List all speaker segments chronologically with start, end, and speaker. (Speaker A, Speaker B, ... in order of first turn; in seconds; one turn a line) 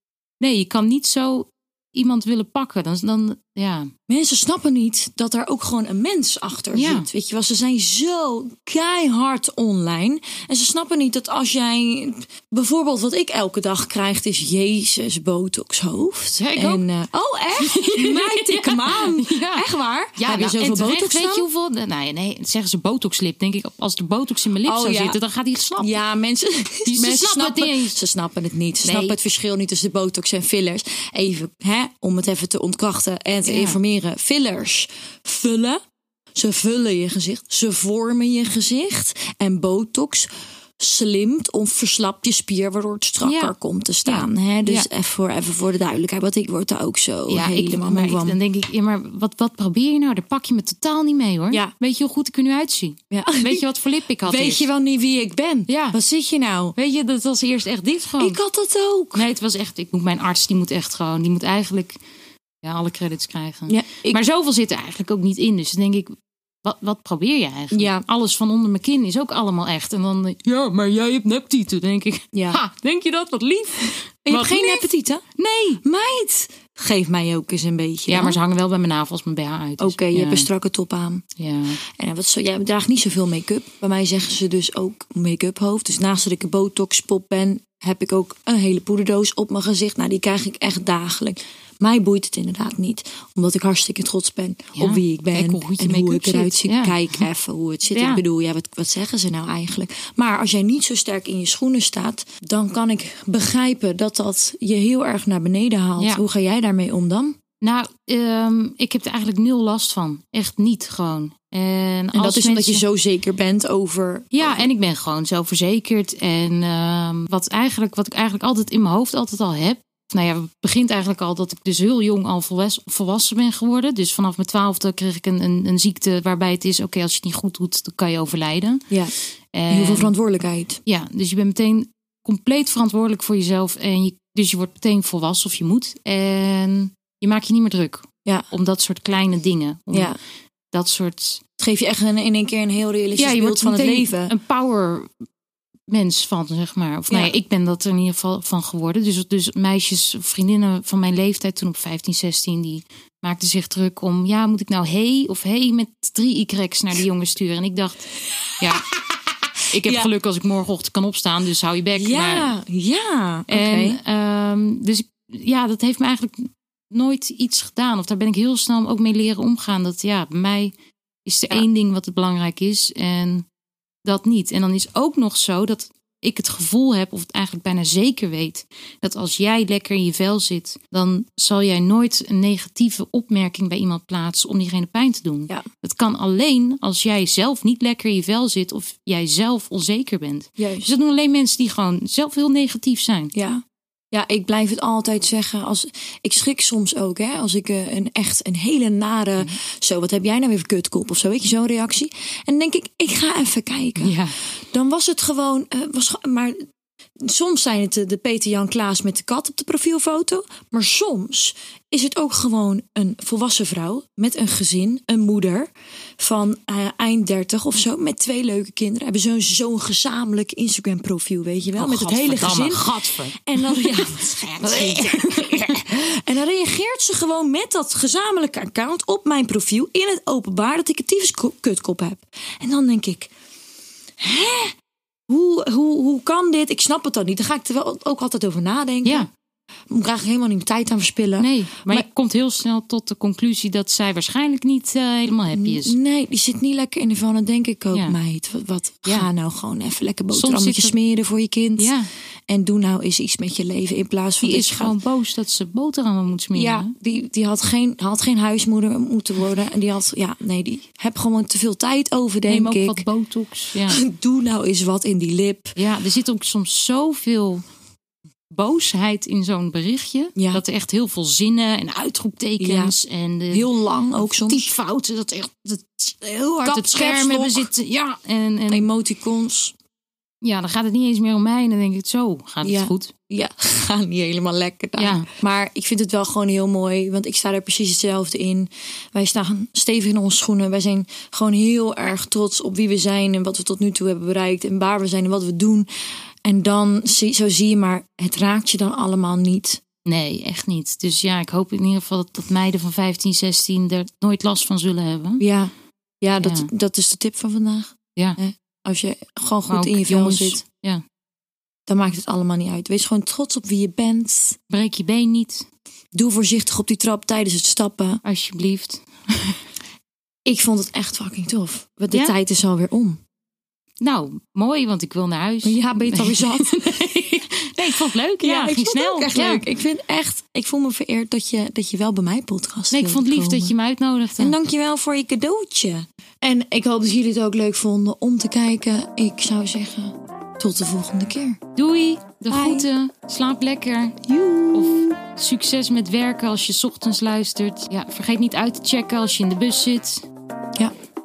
Speaker A: 0.4-3.9
Speaker B: 4.1-21.5
Speaker A: 6.7-7.1
Speaker A: 16.4-16.8
Speaker A: 17.6-25.9
Speaker B: 24.6-25.2
Speaker B: 25.8-35.8
Speaker A: 26.9-28.0
Speaker A: 28.8-29.2
Speaker A: 33.5-33.8
Speaker B: 36.3-40.3
Speaker B: 40.8-48.4
Speaker A: 43.2-44.9
Speaker A: 47.3-54.6
Speaker B: 53.1-53.6
Speaker B: 54.2-56.7
Speaker A: 55.7-56.0
Speaker A: 56.8-58.4
Speaker B: 58.2-59.2
Speaker A: 59.1-62.0
Speaker A: 62.6-75.8
Speaker B: 63.7-64.2
Speaker B: 67.7-68.0
Speaker B: 72.3-72.6
Speaker B: 74.2-75.2
Speaker B: 75.8-78.4
Speaker A: 78.1-80.5
Speaker B: 79.8-81.2
Speaker A: 81.4-81.8
Speaker B: 81.8-107.4
Speaker A: 94.7-97.2
Speaker A: 97.9-98.2
Speaker A: 107.6-112.8
Speaker B: 112.1-114.7
Speaker A: 114.3-128.9
Speaker A: 129.5-130.1
Speaker B: 129.7-130.8
Speaker A: 130.8-140.2
Speaker B: 139.9-140.2
Speaker A: 140.7-141.4
Speaker B: 141.6-144.3
Speaker A: 143.1-145.1
Speaker A: 145.9-158.9
Speaker B: 147.1-147.3
Speaker A: 159.7-162.6
Speaker B: 159.8-160.1
Speaker B: 161.9-164.0
Speaker A: 163.5-170.7
Speaker A: 171.2-173.4
Speaker A: 174.0-193.3
Speaker B: 190.6-190.9
Speaker B: 193.3-204.2
Speaker A: 204.0-204.3
Speaker B: 204.7-206.7
Speaker B: 207.2-233.3
Speaker A: 221.8-225.8
Speaker B: 234.2-234.8
Speaker B: 235.3-239.3
Speaker A: 239.0-239.3
Speaker B: 239.9-242.0
Speaker A: 241.4-245.9
Speaker B: 245.5-251.9
Speaker A: 250.3-250.9
Speaker A: 251.8-252.1
Speaker B: 252.5-254.9
Speaker A: 254.4-256.9
Speaker B: 256.5-263.0
Speaker A: 262.5-264.0
Speaker B: 263.9-265.8
Speaker A: 265.8-267.6
Speaker A: 268.5-278.9
Speaker B: 270.4-270.6
Speaker B: 272.6-272.9
Speaker B: 273.5-274.7
Speaker B: 276.6-277.7
Speaker B: 278.7-279.7
Speaker A: 280.4-283.1
Speaker B: 282.6-295.9
Speaker A: 285.0-285.3
Speaker B: 296.4-299.8
Speaker A: 300.0-305.4
Speaker B: 305.4-310.6
Speaker A: 306.4-306.7
Speaker A: 309.7-311.0
Speaker B: 311.9-314.6
Speaker A: 314.7-315.7
Speaker B: 316.1-318.2
Speaker A: 318.2-319.6
Speaker B: 320.4-323.2
Speaker A: 324.0-329.6
Speaker B: 325.6-327.0
Speaker B: 328.4-333.7
Speaker A: 332.9-334.6
Speaker B: 334.4-341.6
Speaker A: 341.8-350.2
Speaker B: 342.5-342.9
Speaker B: 344.2-345.1